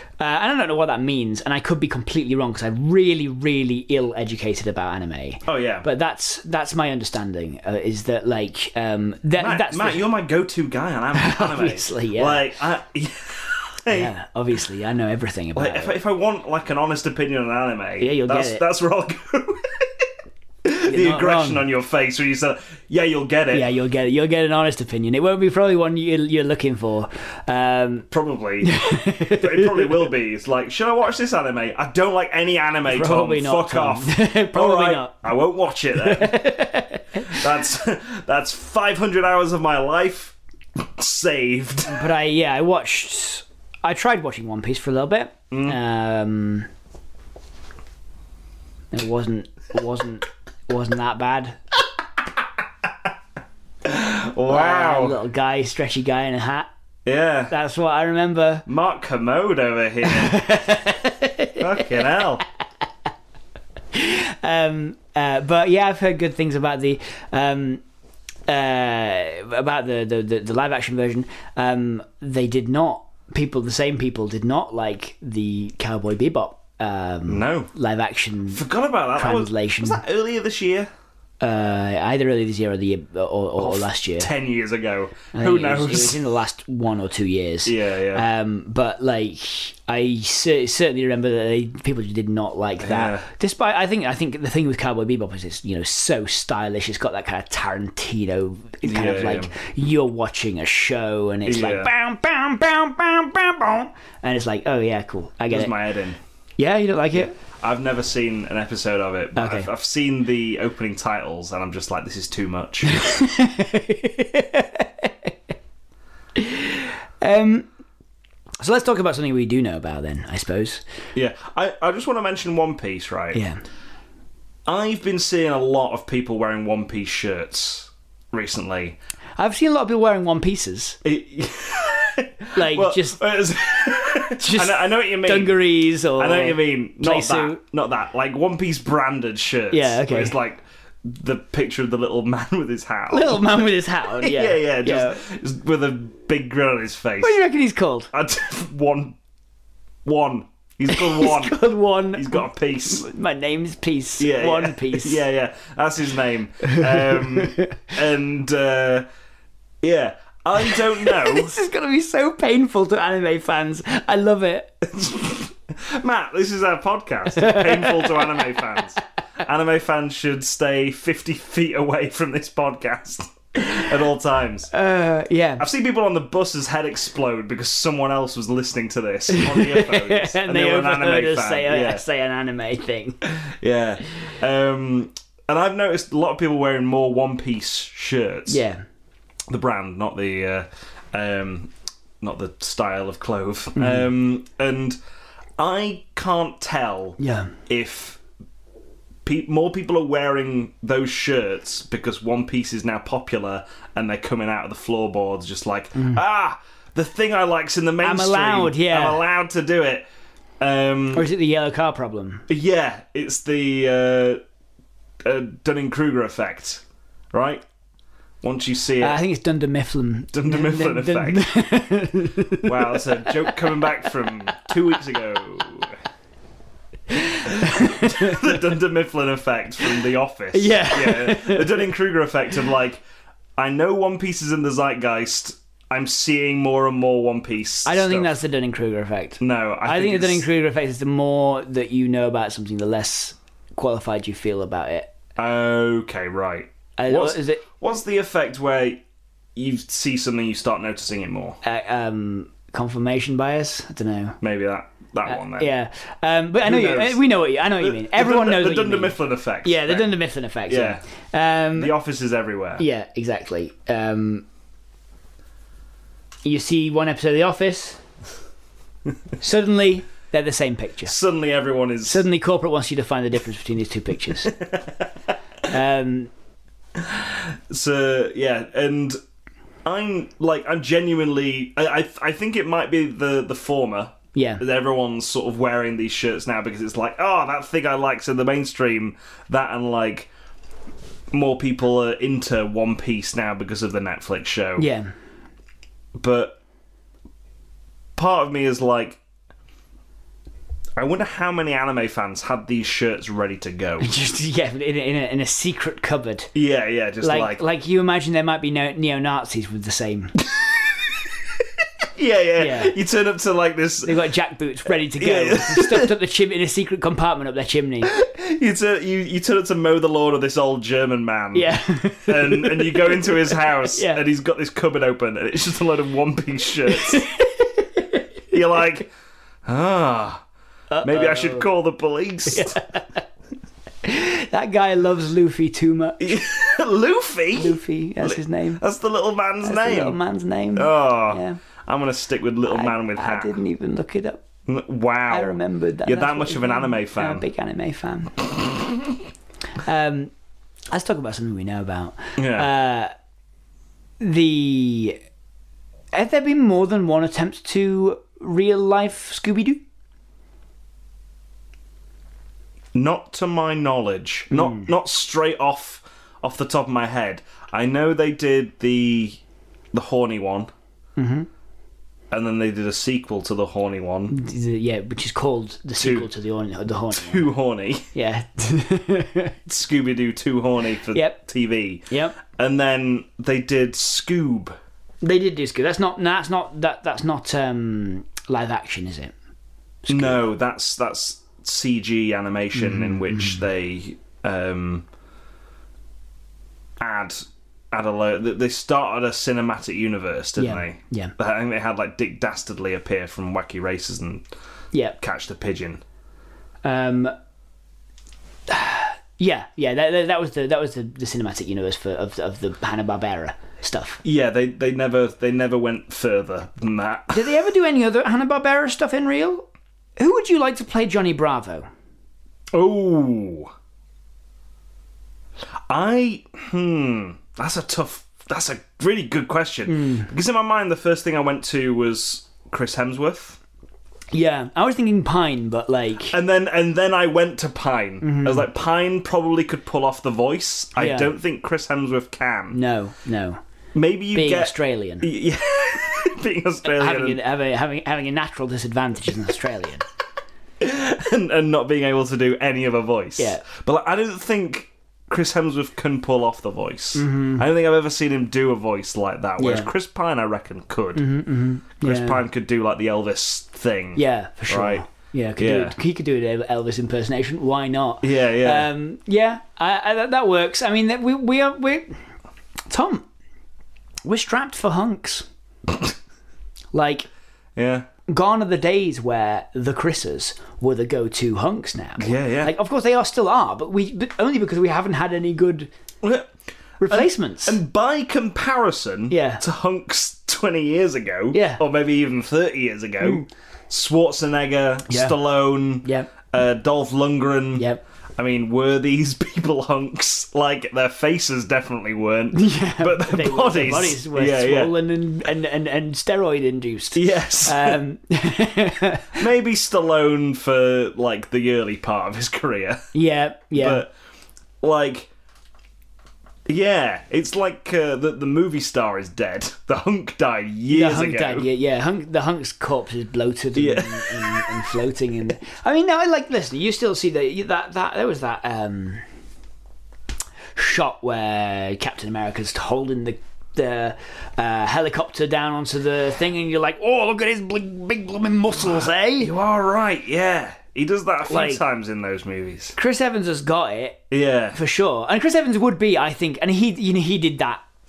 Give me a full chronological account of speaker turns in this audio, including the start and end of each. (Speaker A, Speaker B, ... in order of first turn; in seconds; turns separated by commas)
Speaker A: 0.2-10.0, Speaker B: 5.5-5.9, Speaker B: 9.4-14.1, Speaker A: 11.1-12.5, Speaker A: 13.9-15.9, Speaker B: 15.5-20.1, Speaker A: 18.0-18.6, Speaker B: 20.6-23.7, Speaker A: 20.9-21.6, Speaker A: 23.5-28.1, Speaker B: 28.1-36.4, Speaker A: 28.6-30.1, Speaker A: 32.9-35.1, Speaker A: 35.9-37.5, Speaker B: 37.2-42.0, Speaker A: 41.9-46.7, Speaker B: 45.5-45.8, Speaker A: 48.9-51.6, Speaker B: 53.8-55.2, Speaker A: 54.5-56.7, Speaker B: 57.0-57.5, Speaker A: 57.5-58.6, Speaker B: 58.6-60.4, Speaker A: 60.0-62.2, Speaker B: 61.6-62.4, Speaker A: 63.9-67.8, Speaker A: 68.5-78.6, Speaker B: 77.3-77.7, Speaker B: 78.5-80.9, Speaker A: 79.1-80.0, Speaker A: 81.4-84.3, Speaker B: 83.6-86.2, Speaker A: 85.3-105.8, Speaker B: 87.6-88.2, Speaker B: 92.8-93.2, Speaker B: 98.8-99.5, Speaker B: 101.5-101.9, Speaker B: 105.5-106.2, Speaker A: 106.6-107.3, Speaker B: 107.4-112.9, Speaker A: 109.3-109.7, Speaker A: 112.8-115.3, Speaker A: 116.3-117.7, Speaker A: 118.6-120.8, Speaker B: 121.1-123.4, Speaker A: 123.3-123.6, Speaker B: 124.7-129.0, Speaker A: 129.4-131.0, Speaker B: 131.0-147.4, Speaker A: 132.5-133.2, Speaker A: 134.0-137.6, Speaker A: 139.7-140.3, Speaker A: 143.1-145.2, Speaker A: 147.2-148.1, Speaker B: 148.1-149.2, Speaker B: 150.0-151.6, Speaker A: 150.9-155.2, Speaker B: 152.1-153.0, Speaker B: 154.2-159.1, Speaker A: 156.7-157.8, Speaker B: 159.8-161.6, Speaker A: 160.6-164.8, Speaker B: 164.8-174.7, Speaker A: 167.3-169.0, Speaker A: 173.6-173.9, Speaker A: 174.7-175.6, Speaker B: 175.6-182.0, Speaker A: 179.3-183.2, Speaker B: 183.3-188.6, Speaker A: 188.5-188.8, Speaker B: 189.5-195.0, Speaker A: 193.8-194.0, Speaker B: 195.6-198.2, Speaker A: 197.2-197.6, Speaker B: 199.2-210.0, Speaker A: 205.9-206.2, Speaker A: 208.0-209.2, Speaker B: 210.6-211.3, Speaker A: 211.1-212.5, Speaker B: 212.5-214.4, Speaker B: 215.2-217.6, Speaker B: 218.4-219.2, Speaker A: 219.0-224.7, Speaker B: 220.3-221.4, Speaker B: 222.6-226.0, Speaker A: 227.1-228.6, Speaker B: 227.5-233.0, Speaker A: 230.5-231.9, Speaker B: 233.6-238.4, Speaker A: 237.8-245.1, Speaker B: 239.4-240.4, Speaker B: 245.3-249.0, Speaker A: 247.0-247.6, Speaker B: 249.5-251.6, Speaker A: 251.6-254.4, Speaker B: 254.4-255.7, Speaker A: 255.2-261.9, Speaker B: 256.6-257.2, Speaker B: 257.8-260.1, Speaker B: 260.7-261.0, Speaker B: 261.8-262.8, Speaker A: 262.8-264.4, Speaker A: 266.4-268.0, Speaker A: 269.4-271.1, Speaker B: 271.1-272.2, Speaker A: 272.0-274.5, Speaker B: 274.4-275.1, Speaker A: 275.7-276.3, Speaker B: 276.9-279.2, Speaker B: 279.8-290.3, Speaker A: 284.3-284.6, Speaker B: 291.3-294.9, Speaker A: 294.8-295.1, Speaker B: 296.1-296.6, Speaker B: 298.1-299.2, Speaker B: 301.0-304.1, Speaker A: 304.0-306.5, Speaker B: 306.5-307.6, Speaker A: 307.2-310.4, Speaker B: 312.1-314.1, Speaker A: 312.6-312.9, Speaker A: 314.0-318.1, Speaker B: 315.1-316.1, Speaker B: 318.0-327.3, Speaker A: 321.5-324.2, Speaker A: 326.9-328.8, Speaker B: 328.5-329.1, Speaker B: 329.6-330.4, Speaker A: 330.9-331.7, Speaker B: 331.0-332.8, Speaker A: 332.5-333.2, Speaker A: 334.0-336.4, Speaker B: 336.2-340.2, Speaker A: 337.5-338.8, Speaker A: 339.6-341.6, Speaker B: 340.7-343.6, Speaker A: 342.7-344.4, Speaker B: 344.6-347.4, Speaker A: 345.3-348.5, Speaker B: 348.6-349.1, Speaker A: 349.8-350.3, Speaker A: 350.9-353.1, Speaker B: 352.4-352.7, Speaker A: 354.2-355.2, Speaker A: 356.1-359.8, Speaker B: 362.9-369.4, Speaker A: 364.5-364.9, Speaker B: 369.9-370.7, Speaker A: 371.1-371.5, Speaker B: 372.3-374.3, Speaker A: 374.3-377.4, Speaker B: 376.0-376.3, Speaker B: 377.1-378.1, Speaker A: 378.1-379.6, Speaker B: 379.6-384.8, Speaker A: 381.1-381.4, Speaker A: 382.1-382.4, Speaker A: 385.2-389.3, Speaker A: 390.0-390.4, Speaker B: 390.1-395.1, Speaker A: 392.7-393.6, Speaker B: 397.0-404.4, Speaker A: 400.6-401.3, Speaker B: 405.2-406.0, Speaker A: 406.8-407.3, Speaker A: 408.7-414.2, Speaker B: 414.2-417.6, Speaker A: 417.3-419.6, Speaker A: 420.2-421.9, Speaker B: 422.7-423.7, Speaker B: 425.9-433.6, Speaker A: 429.9-430.3, Speaker A: 434.3-436.4, Speaker B: 436.3-442.8, Speaker A: 438.2-438.7, Speaker A: 440.9-441.3, Speaker A: 442.7-443.6, Speaker B: 443.9-447.4, Speaker A: 444.3-445.3, Speaker A: 446.8-450.0, Speaker B: 450.8-461.2, Speaker A: 453.4-453.6, Speaker A: 457.1-457.6, Speaker A: 459.6-459.9, Speaker A: 461.1-462.4, Speaker B: 462.0-465.1, Speaker A: 464.1-472.2, Speaker B: 465.6-465.9, Speaker B: 468.2-468.9, Speaker A: 472.9-473.2, Speaker A: 474.2-475.4, Speaker A: 476.9-477.2, Speaker B: 477.8-478.1, Speaker A: 478.3-485.9, Speaker B: 482.2-482.7, Speaker B: 486.2-486.5, Speaker A: 487.0-487.8, Speaker B: 487.1-504.9, Speaker A: 489.3-489.6, Speaker A: 491.5-491.8, Speaker A: 493.2-493.5, Speaker A: 495.1-495.4, Speaker A: 496.0-496.3, Speaker A: 497.8-498.0, Speaker A: 502.5-509.4, Speaker B: 507.1-508.0, Speaker B: 509.4-513.0, Speaker A: 513.1-514.0, Speaker B: 513.7-514.1, Speaker B: 514.8-515.3, Speaker B: 516.7-521.7, Speaker A: 520.9-529.2, Speaker B: 523.7-524.8, Speaker A: 530.7-539.5, Speaker B: 539.4-542.9, Speaker A: 541.5-541.8, Speaker A: 543.0-544.2, Speaker B: 544.3-544.8, Speaker A: 544.7-547.8